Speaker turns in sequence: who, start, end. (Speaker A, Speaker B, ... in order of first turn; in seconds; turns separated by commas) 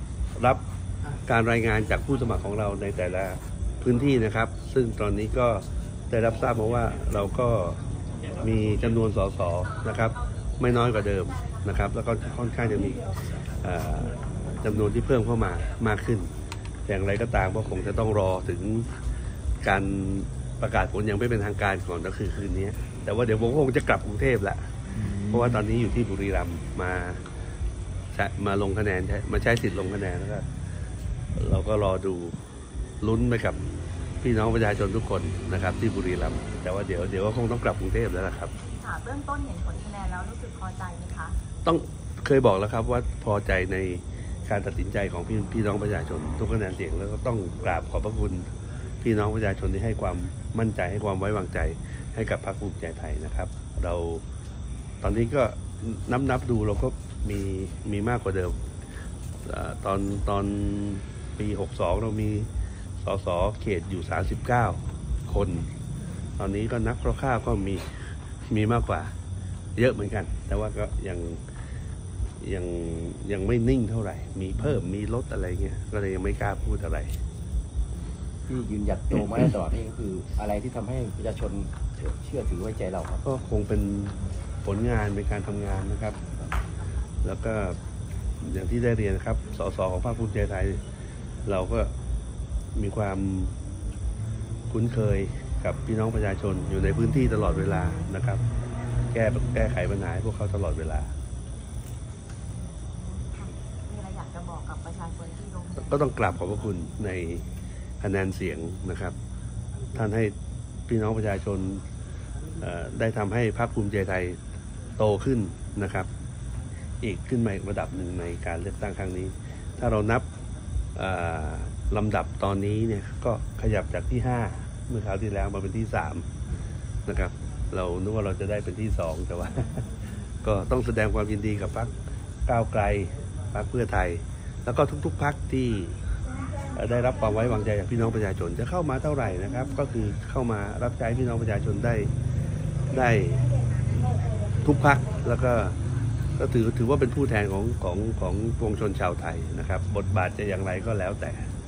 Speaker A: 0.4-0.6, Speaker A: 1.2-16.3, Speaker A: 16.8-19.0, Speaker A: 19.6-27.2, Speaker A: 28.1-30.5, Speaker A: 31.3-32.4, Speaker A: 33.0-33.6, Speaker A: 34.2-38.5, Speaker B: 38.6-41.4, Speaker A: 41.6-54.2, Speaker A: 55.0-58.6, Speaker A: 59.4-62.5, Speaker A: 63.0-65.7, Speaker A: 66.4-69.1, Speaker A: 69.8-71.4, Speaker A: 72.4-77.2, Speaker C: 78.5-83.2, Speaker A: 83.2-86.3, Speaker A: 87.2-87.8, Speaker A: 88.4-90.8, Speaker A: 91.5-91.9, Speaker A: 92.7-93.5, Speaker A: 94.7-98.4, Speaker A: 99.1-101.1, Speaker B: 102.5-106.0, Speaker A: 105.8-107.5, Speaker A: 108.0-109.1, Speaker A: 109.9-110.3, Speaker A: 110.9-111.8, Speaker A: 112.6-114.4, Speaker A: 115.0-116.1, Speaker A: 117.0-120.3, Speaker A: 120.9-126.3, Speaker A: 127.0-131.9, Speaker A: 132.5-136.0, Speaker A: 136.7-142.1, Speaker A: 142.9-143.4, Speaker A: 144.6-145.8, Speaker A: 146.4-151.5